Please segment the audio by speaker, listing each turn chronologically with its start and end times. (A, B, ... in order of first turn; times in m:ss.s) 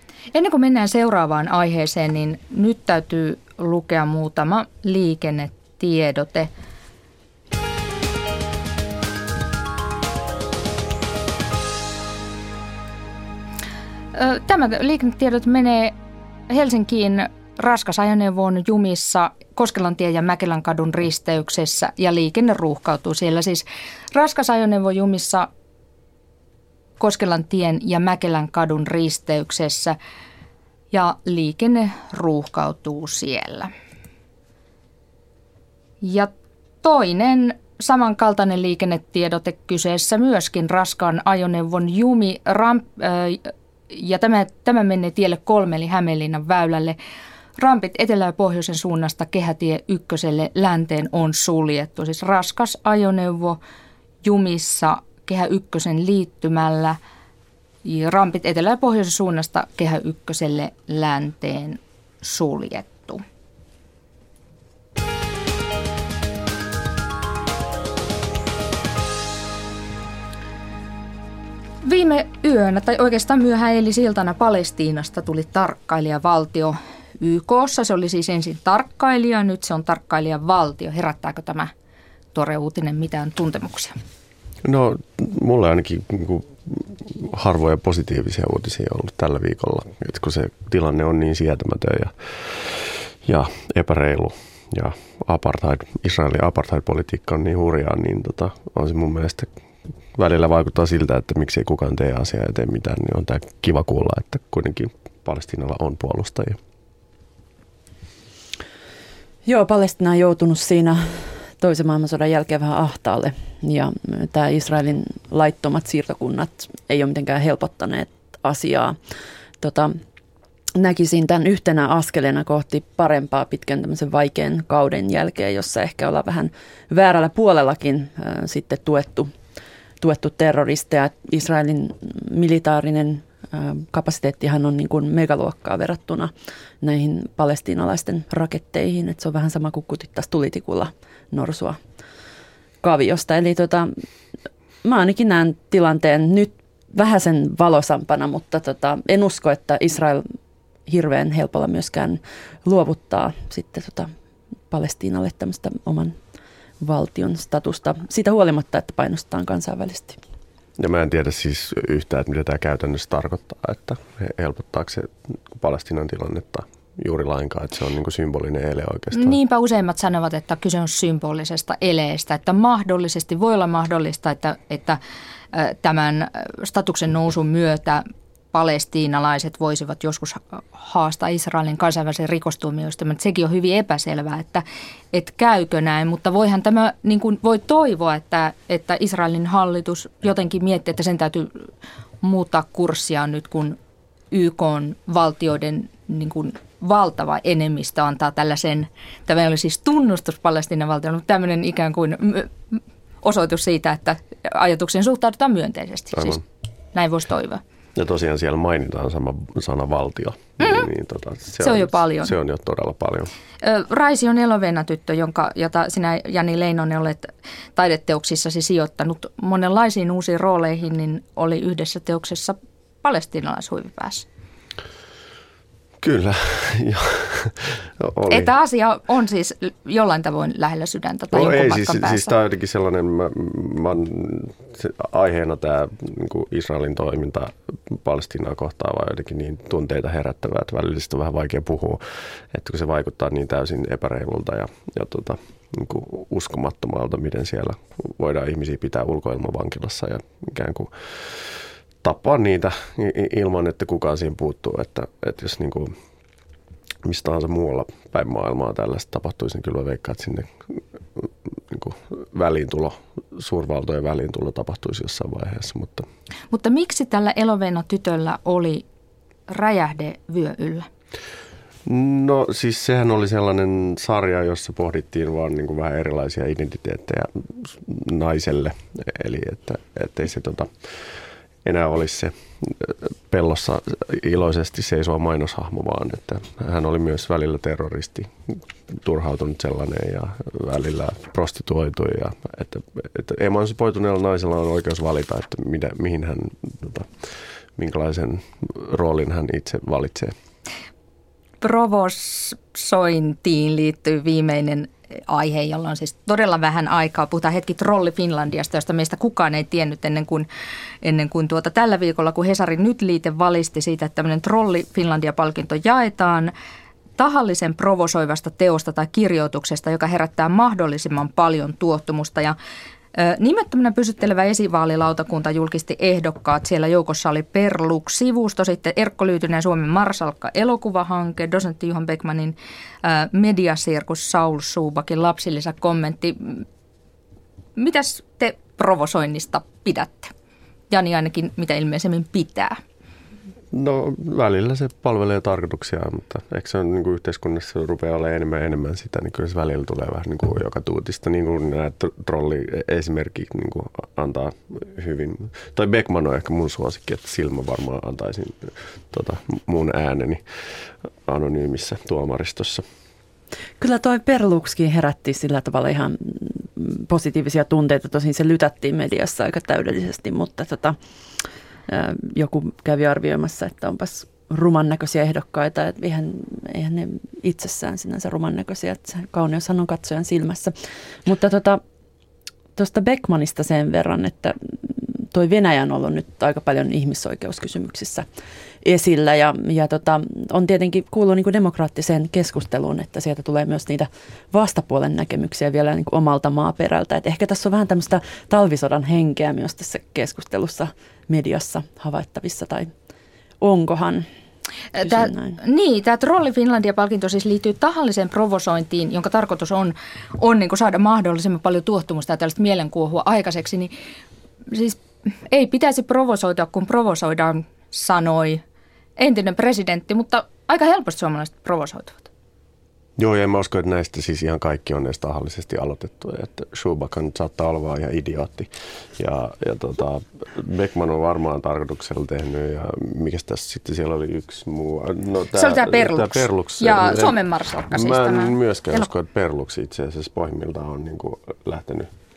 0:00.3-0:06.5 A
0:14.1-0:16.0 A
0:16.5-0:25.5 A
0:27.0-0:30.0 A
0:30.9-0:33.7 A
0:36.0-0:47.0 A
0:47.6-0:53.6 A
0:54.2-0:57.0 A
0:57.8-1:03.2 A
1:11.8-1:21.7 A
1:22.3-1:23.9 A
1:24.6-1:39.5 B
1:40.1-1:46.6 B
1:49.4-1:59.0 C
1:59.6-2:00.0 C
2:00.8-2:09.3 C
2:10.0-2:21.8 C
2:22.8-2:23.9 C
2:24.8-2:30.3 C
2:30.8-2:34.1 C
2:34.7-2:36.2 C
2:36.8-2:40.2 C
2:40.8-2:49.4 B
2:49.1-2:55.0 A
2:55.5-3:11.7 A
3:12.2-3:13.8 A
3:14.3-3:26.4 A
3:26.2-3:26.4 B
3:26.9-3:27.6 A
3:27.9-3:33.3 B
3:30.6-3:30.9 A
3:31.6-3:32.3 A
3:33.6-3:44.2 A
3:46.0-3:48.5 B
3:48.3-3:52.3 A
3:51.3-4:15.9 B
4:17.0-4:26.1 B
4:26.5-4:28.8 A
4:29.5-4:30.9 A
4:31.8-4:41.1 B
4:41.6-5:00.3 B
5:01.6-5:10.5 A
5:11.0-5:16.5 A
5:17.2-5:22.6 A
5:23.1-5:36.6 A
5:37.8-5:40.3 A
5:40.9-5:42.8 A
5:43.7-6:02.8 B
6:03.8-6:11.0 C
6:11.9-6:21.8 C
6:22.8-6:28.2 C
6:28.8-6:42.9 C
6:43.6-6:44.3 C
6:44.9-6:53.9 A
6:45.0-6:45.5 C
6:54.7-6:58.6 A
6:59.2-7:02.3 A
7:03.2-7:22.1 B
7:15.6-7:19.1 A